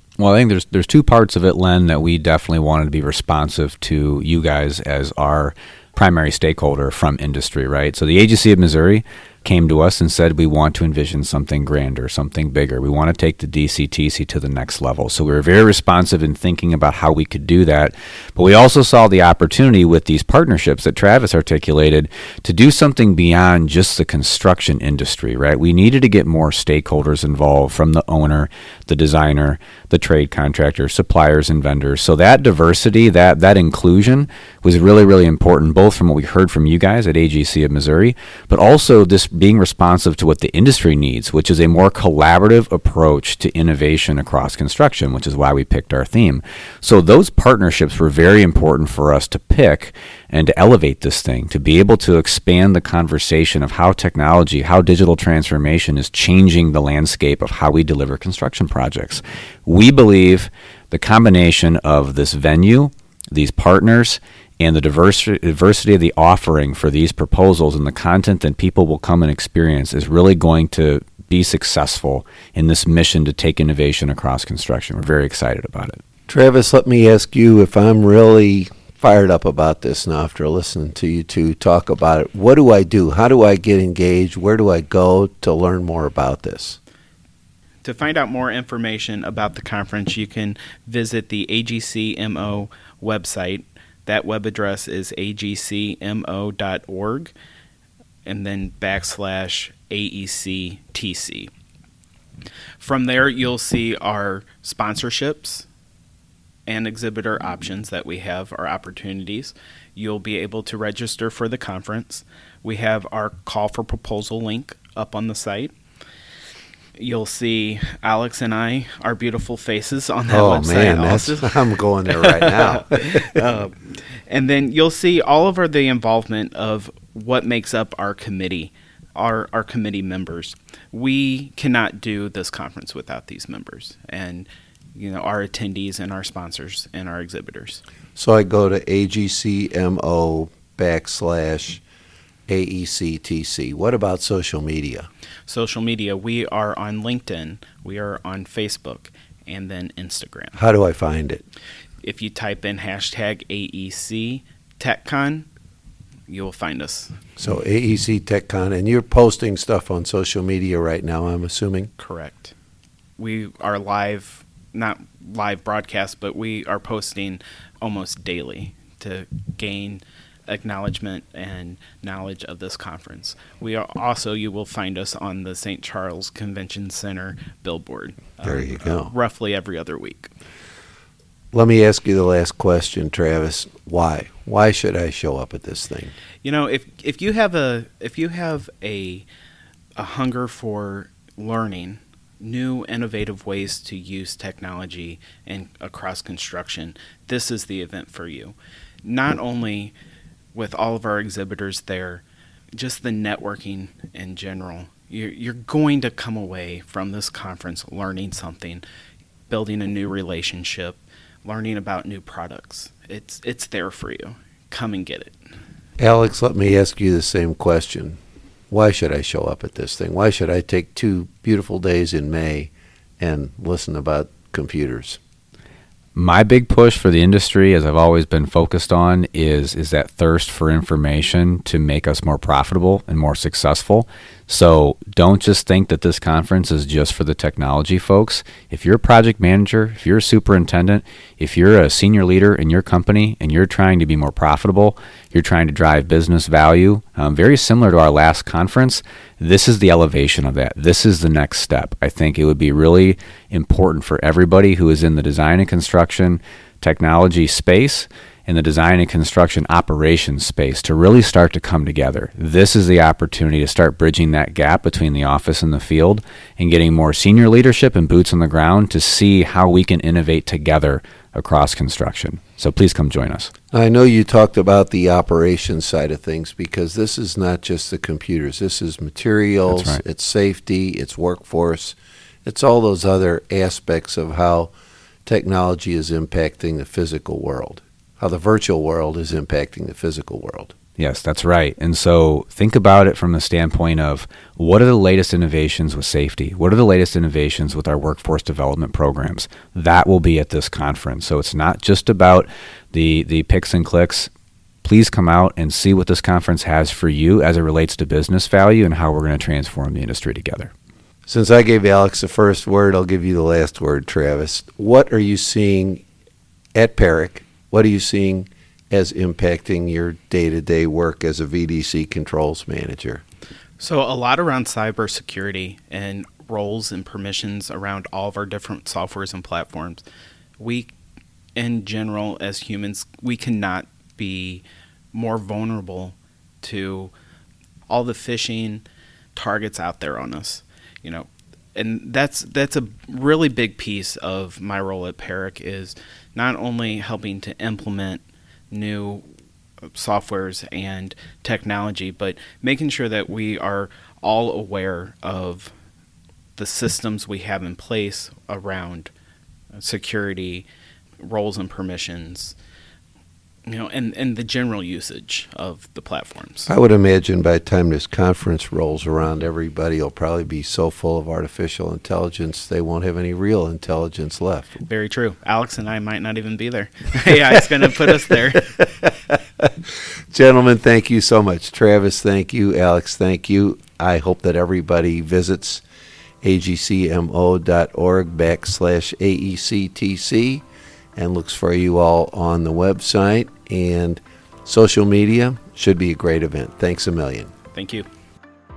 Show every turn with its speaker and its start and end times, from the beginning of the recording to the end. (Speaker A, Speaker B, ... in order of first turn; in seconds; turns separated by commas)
Speaker A: 0.2-76.0, Speaker B: 76.3-86.8, Speaker C: 87.8-97.3, Speaker C: 98.2-101.5, Speaker C: 102.8-105.6, Speaker C: 106.7-115.7, Speaker C: 117.0-121.4, Speaker B: 120.3-123.4, Speaker C: 123.0-123.7, Speaker C: 124.3-137.8, Speaker B: 138.2-141.8, Speaker B: 142.5-145.1, Speaker C: 145.5-150.5, Speaker B: 150.6-151.4, Speaker C: 152.0-155.4, Speaker C: 156.3-157.2, Speaker B: 157.4-161.9, Speaker C: 162.0-162.5, Speaker C: 163.2-180.3, Speaker B: 178.4-179.1, Speaker B: 181.5-186.1, Speaker C: 186.4-189.2, Speaker C: 189.9-199.9, Speaker C: 200.5-202.2, Speaker C: 202.8-208.8, Speaker C: 209.5-215.3, Speaker B: 216.0-218.2, Speaker B: 218.7-225.2, Speaker A: 226.1-273.5, Speaker B: 273.7-284.7, Speaker A: 279.7-280.0, Speaker B: 285.2-290.7, Speaker A: 291.0-304.3, Speaker A: 304.8-310.7, Speaker B: 311.3-316.0, Speaker B: 316.7-323.2, Speaker C: 323.8-330.0, Speaker C: 330.6-330.9, Speaker C: 331.6-337.1, Speaker C: 337.9-338.8, Speaker C: 339.3-349.2, Speaker C: 349.9-355.7, Speaker C: 356.6-359.1, Speaker C: 359.8-360.6, Speaker C: 361.2-362.5, Speaker C: 363.7-366.7, Speaker B: 366.7-374.8, Speaker C: 374.8-378.6, Speaker B: 378.1-379.7, Speaker B: 380.3-385.8, Speaker B: 386.4-390.6, Speaker B: 391.1-397.5, Speaker C: 397.7-398.0